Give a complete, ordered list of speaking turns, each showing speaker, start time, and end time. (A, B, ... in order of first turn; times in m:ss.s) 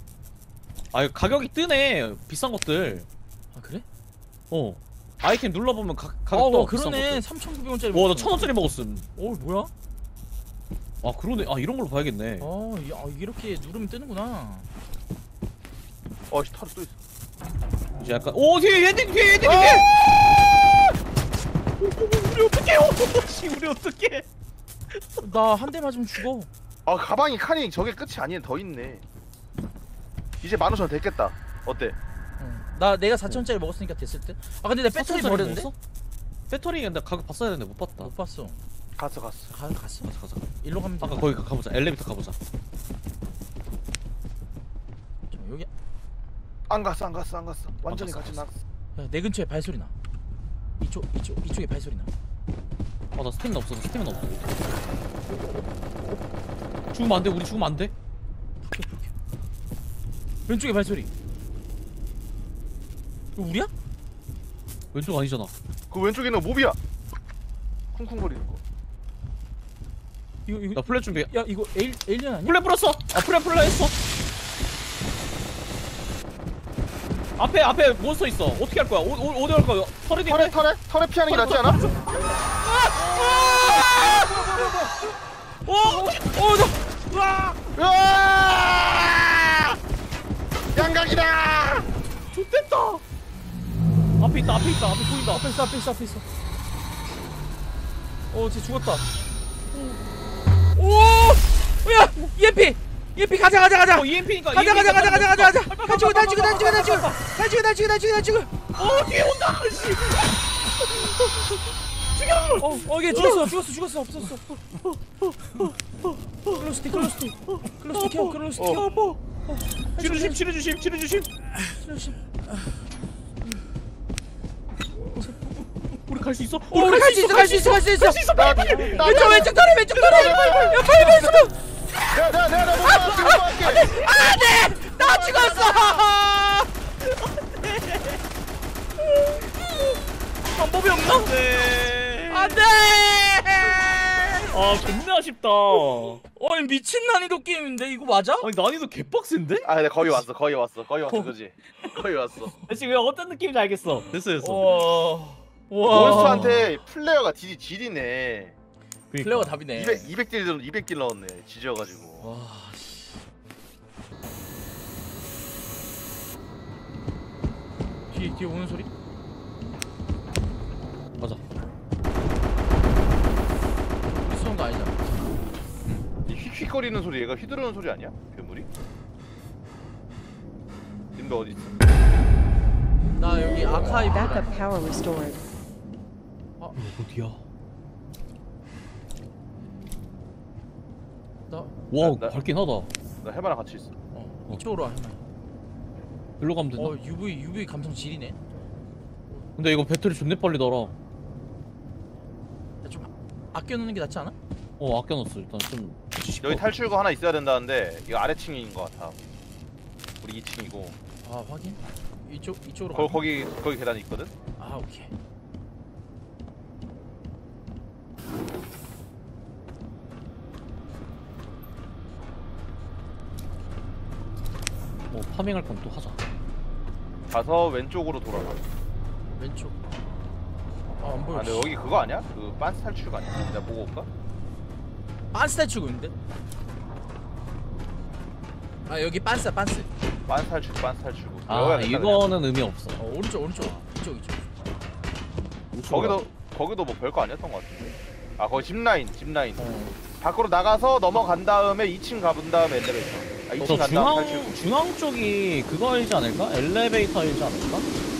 0:00.9-0:03.1 A
0:03.5-0:03.8 B
0:04.5-0:07.2 A
0:06.3-0:08.5 B
0:07.9-0:09.1 A
0:09.2-0:09.7 B
0:11.0-0:12.5 A
0:12.4-0:14.7 B
0:16.3-0:17.0 C
0:18.0-0:19.9 A
0:19.4-0:19.8 C
0:21.8-0:24.3 A
0:24.9-0:25.2 A
0:25.2-0:26.5 B
0:26.8-0:29.0 C
0:30.4-0:32.0 C
0:32.4-0:35.7 B
0:35.0-0:35.7 A
0:36.5-0:38.1 A
0:38.0-0:38.6 B
0:39.0-0:39.5 C
0:39.5-0:40.1 B
0:40.0-0:40.5 A
0:40.6-0:41.4 B
0:41.0-0:42.4 A
0:45.3-0:45.7 B
0:46.7-0:48.5 C
0:47.9-0:48.5 A
0:49.0-0:49.9 B
0:50.8-0:52.1 B
0:53.1-0:54.5 A
0:56.9-0:57.9 A
0:58.6-0:59.1 B
1:00.5-1:01.1 B
1:03.4-1:03.7 B
1:04.9-1:05.5 A
1:05.9-1:06.8 C
1:07.9-1:08.6 C
1:10.4-1:12.5 B
1:10.7-1:11.3 A
1:12.4-1:13.9 A
1:17.4-1:20.6 A
1:20.2-1:21.8 C
1:21.3-1:22.2 A
1:22.6-1:24.4 B
1:22.9-1:24.9 A
1:23.7-1:24.7 C
1:25.7-1:26.9 B
1:25.7-1:26.3 A
1:27.1-1:27.6 A
1:27.8-1:29.8 C
1:30.7-1:31.9 C
1:32.3-1:33.0 A
1:34.2-1:35.5 A
1:35.3-1:36.2 B
1:38.3-1:39.1 B
1:39.7-1:40.0 A
1:40.8-1:48.5 B
1:43.9-1:47.2 A
1:48.8-1:53.5 A
1:52.6-1:54.4 B
1:54.7-1:59.2 A
1:56.5-1:58.9 B
1:58.6-1:58.8 C
1:59.5-2:00.4 B
2:00.0-2:01.3 A
2:01.7-2:02.2 B
2:06.0-2:10.8 A
2:06.7-2:11.5 B
2:08.3-2:11.5 C
2:08.4-2:09.5 D
2:12.1-2:14.1 C
2:12.8-2:16.7 B
2:15.0-2:16.0 C
2:17.0-2:18.2 A
2:20.5-2:21.3 B
2:21.1-2:22.6 A
2:22.3-2:24.5 B
2:24.5-2:26.2 A
2:26.4-2:28.5 B
2:28.4-2:29.7 A
2:29.6-2:32.5 C
2:32.6-2:34.9 A
2:34.4-2:36.6 B
2:35.9-2:38.5 C
2:35.9-2:36.6 A
2:39.1-2:39.6 A
2:39.2-2:40.1 B
2:39.7-2:42.3 C
2:42.2-2:43.1 B
2:48.1-2:48.9 B
2:51.1-2:51.4 A
2:54.0-2:55.2 B
2:55.9-2:58.7 C
3:01.2-3:01.8 C
3:03.2-3:04.5 B
3:04.1-3:05.4 D
3:06.8-3:07.4 A
3:11.5-3:11.7 B
3:11.9-3:12.9 A
3:12.0-3:12.4 C
3:13.2-3:14.0 C
3:14.1-3:15.2 B
3:16.4-3:17.0 A
3:16.8-3:18.4 B
3:19.6-3:20.9 A
3:22.8-3:24.3 B
3:24.8-3:26.7 A
3:26.4-3:29.2 C
3:30.2-3:31.0 C
3:31.2-3:33.2 B
3:32.9-3:34.3 C
3:34.6-3:35.1 B
3:45.1-3:46.2 A
3:47.3-3:48.6 C
3:49.4-3:49.8 B
3:51.0-3:51.7 B
3:51.3-3:54.1 C
3:55.3-3:56.1 B
3:58.9-3:59.9 B
4:00.3-4:02.3 C
4:01.5-4:03.0 A
4:03.0-4:04.6 B
4:05.7-4:06.2 A
4:05.9-4:09.6 C
4:09.6-4:09.9 B
4:10.2-4:14.6 C
4:13.6-4:17.9 A